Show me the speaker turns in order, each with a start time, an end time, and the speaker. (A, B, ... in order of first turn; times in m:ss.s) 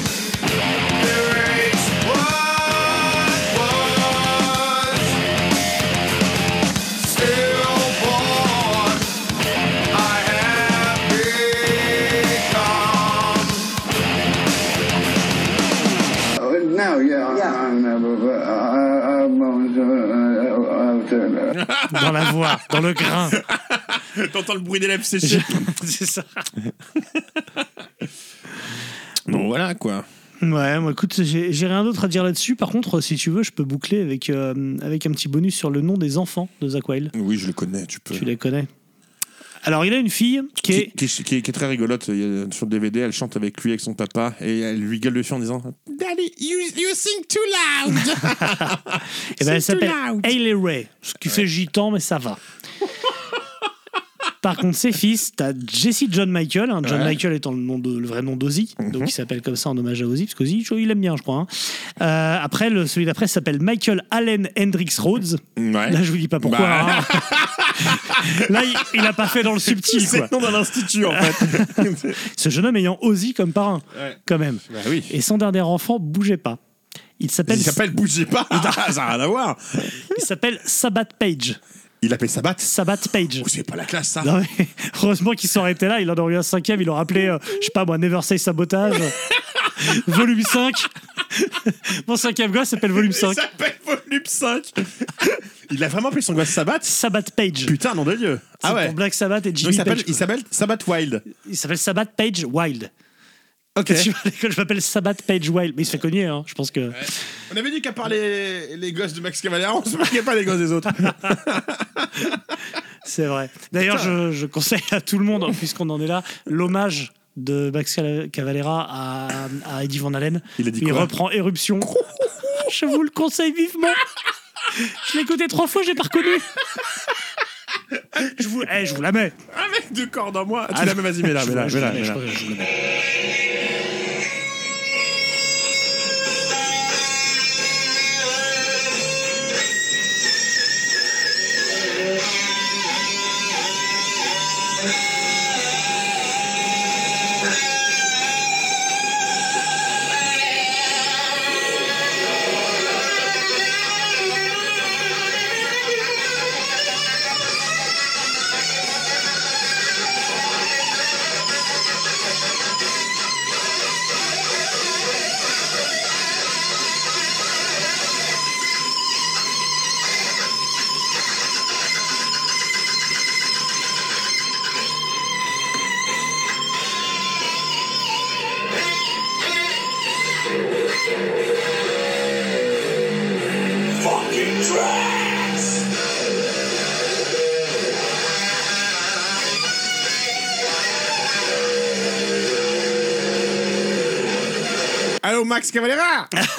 0:01.0-0:02.8 A
0:03.5-0:04.8 A
0:10.0-0:11.5 A
0:12.6-0:12.9 A
0:16.4-0:21.6 B
0:21.5-0:25.7 A
0:21.9-0:23.4 C
0:25.2-0:26.5 C
0:29.3-0:30.0 A
0:30.4-0:37.1 C
0:37.1-0:38.3 A
0:38.1-0:38.7 C
0:39.6-0:40.9 C
0:40.6-0:50.3 A
0:48.2-0:48.8 C
0:49.3-0:52.4 C
0:54.4-1:10.5 C
0:56.8-0:57.2 A
0:58.8-0:59.1 A
1:05.6-1:12.2 A
1:11.0-1:16.6 C
1:13.9-1:15.1 A
1:17.2-1:17.8 C
1:17.5-1:20.2 A
1:20.1-1:21.6 C
1:22.0-1:22.7 A
1:22.6-1:23.5 C
1:23.4-1:24.3 A
1:24.2-1:29.2 C
1:29.8-1:33.4 C
1:32.9-1:36.9 A
1:36.8-1:37.7 C
1:37.6-1:39.0 A
1:38.6-1:40.2 C
1:39.6-1:41.2 A
1:41.3-1:42.9 C
1:43.8-1:44.1 A
1:43.8-1:47.2 C
1:46.9-1:52.4 A
1:53.0-2:02.0 C
1:53.9-1:54.1 A
2:00.6-2:01.1 A
2:01.8-2:02.6 A
2:02.5-2:04.0 C
2:04.7-2:06.5 C
2:06.8-2:07.0 A
2:08.2-2:09.3 C
2:09.5-2:12.2 A
2:10.7-2:12.7 C
3:04.0-3:05.6 A
3:15.2-3:16.3 A